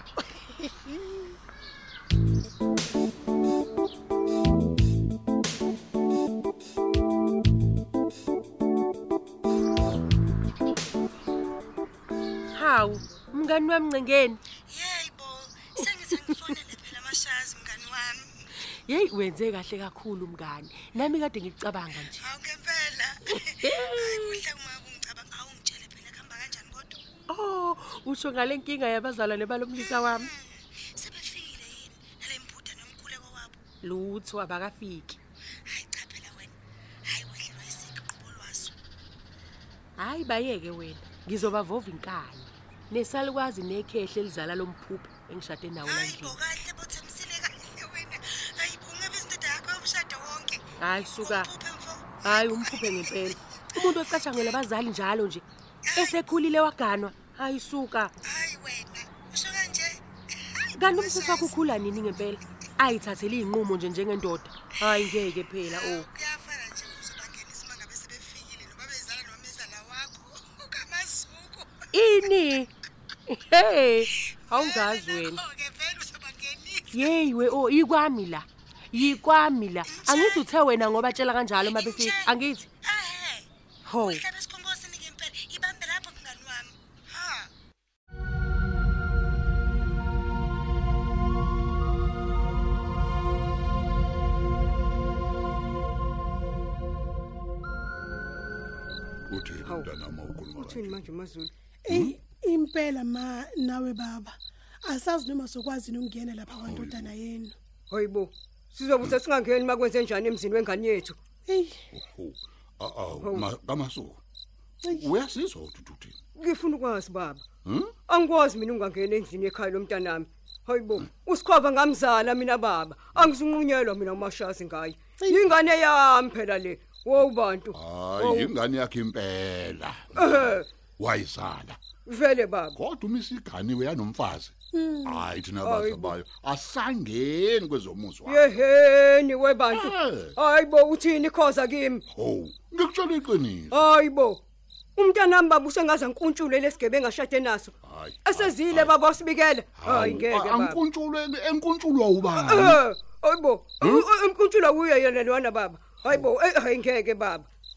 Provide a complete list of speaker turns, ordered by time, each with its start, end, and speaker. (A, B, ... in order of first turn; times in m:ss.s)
0:00.2-0:01.2 A
0:12.6-0:14.4 B
0:14.7-0:18.4 C
0:16.0-0:16.6 B
0:18.9-0:22.2 B
0:22.1-0:27.0 C
0:23.5-0:24.4 B
0:27.3-0:30.3 B
0:29.8-0:33.6 C
0:33.8-0:35.2 B
0:35.7-0:36.5 C
0:37.0-0:38.7 C
0:40.0-0:46.4 B
0:45.8-0:54.5 C
0:50.8-0:51.5 B
0:52.2-0:55.4 B
0:55.9-0:56.2 C
0:56.0-0:58.1 B
0:58.2-1:01.5 C
1:00.8-1:06.1 B
1:05.7-1:11.8 C
1:11.9-1:12.7 B
1:13.3-1:15.4 B
1:14.5-1:17.1 C
1:16.9-1:22.7 B
1:19.9-1:20.4 C
1:21.6-1:22.3 C
1:22.8-1:23.5 C
1:23.9-1:24.3 B
1:24.0-1:27.5 C
1:39.3-1:41.0 D
1:39.6-1:39.9 E
1:40.6-1:41.5 E
1:41.8-1:47.6 A
1:46.7-1:47.1 D
1:47.9-1:51.2 E
1:51.5-1:51.8 A
1:51.9-1:54.2 D
1:53.2-1:53.5 E
1:54.9-1:56.2 D
1:56.4-1:57.4 E
1:57.6-1:57.9 D
1:58.1-2:08.6 E
2:07.8-2:10.4 D
2:10.2-2:10.7 E
2:11.0-2:11.8 D
2:12.1-2:12.8 E
2:12.8-2:14.5 D
2:14.8-2:15.2 A
2:15.1-2:18.4 D
2:15.6-2:16.2 E
2:18.2-2:22.1 E
2:19.8-2:20.3 D
2:22.2-2:23.8 D
2:23.7-2:24.4 E
2:25.0-2:27.7 E
2:27.8-2:28.9 D
2:28.2-2:30.8 E
2:29.8-2:32.5 D
2:32.2-2:37.5 E